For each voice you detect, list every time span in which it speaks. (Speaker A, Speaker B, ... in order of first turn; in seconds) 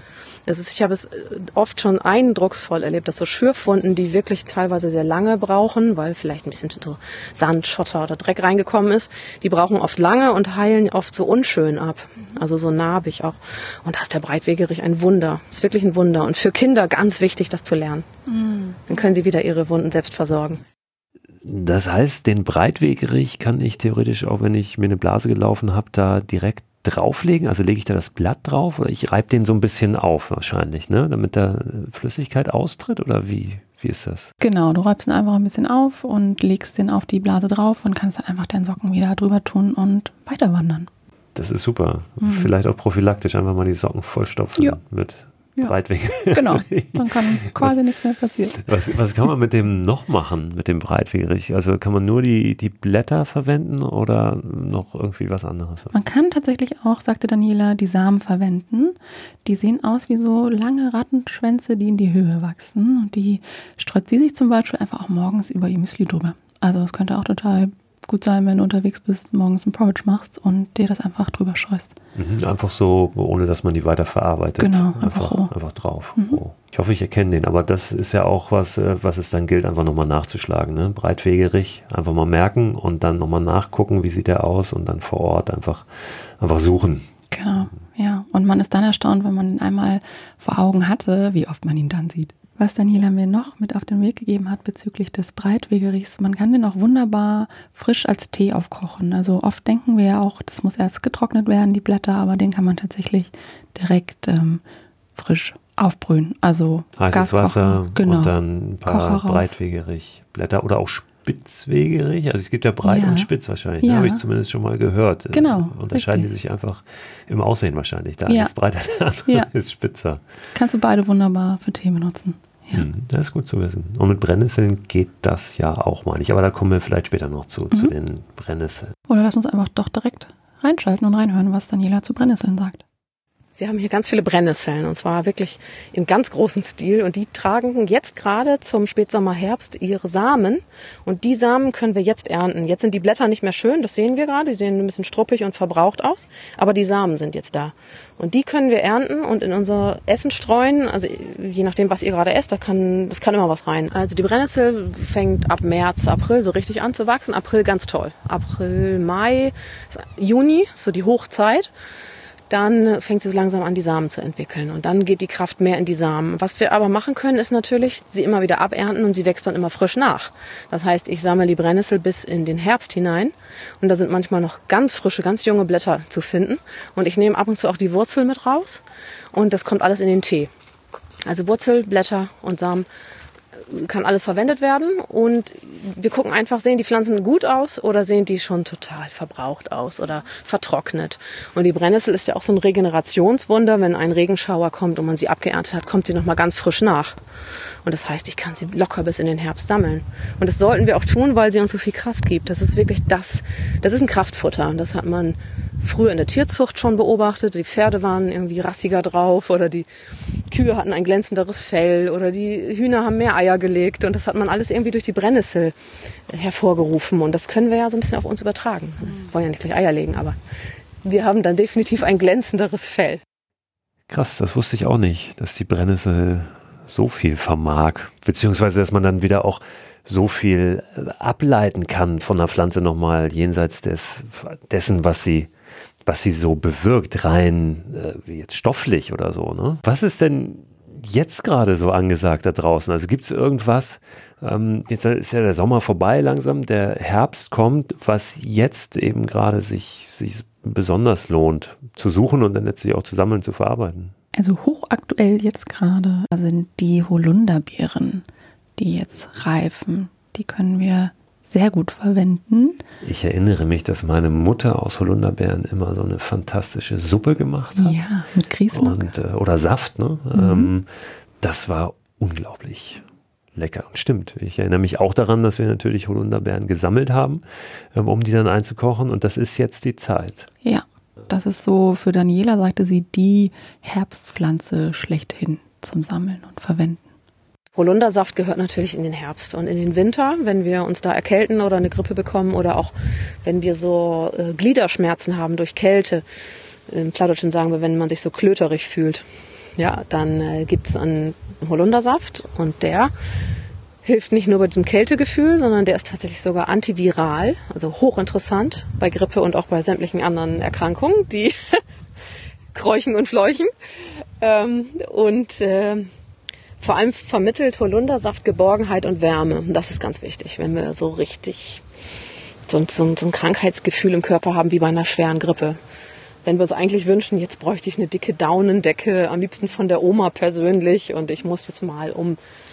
Speaker A: 0.5-18.1, 18.9-20.6, 133.6-161.7, 162.5-180.5, 181.3-182.9, 183.7-197.2, 197.8-209.9, 210.5-215.8, 216.3-220.3, 221.0-223.2, 287.8-292.9, 293.4-296.2, 296.9-299.2, 299.8-303.1, 304.0-311.8, 312.7-313.7, 314.4-316.1, 316.8-321.8, 322.7-325.8, 326.4-332.4
Speaker B: 18.3-18.8, 34.4-40.9, 42.2-42.5, 45.6-48.7, 55.9-72.0, 74.6-75.5, 87.3-104.6, 105.2-109.5, 112.8-113.3, 113.8-114.2, 115.3-116.3, 118.3-118.5, 120.5-122.9, 129.1-132.8, 254.3-258.2, 258.8-262.8, 267.8-269.1, 270.4-270.7, 280.6-287.1
Speaker C: 21.4-34.3, 41.4-47.8, 48.6-55.9, 72.2-87.1, 107.0-120.2, 122.7-128.9, 224.1-235.5, 236.1-254.1, 263.0-268.1, 268.7-270.9, 271.4-273.0, 273.6-277.4, 277.9-280.5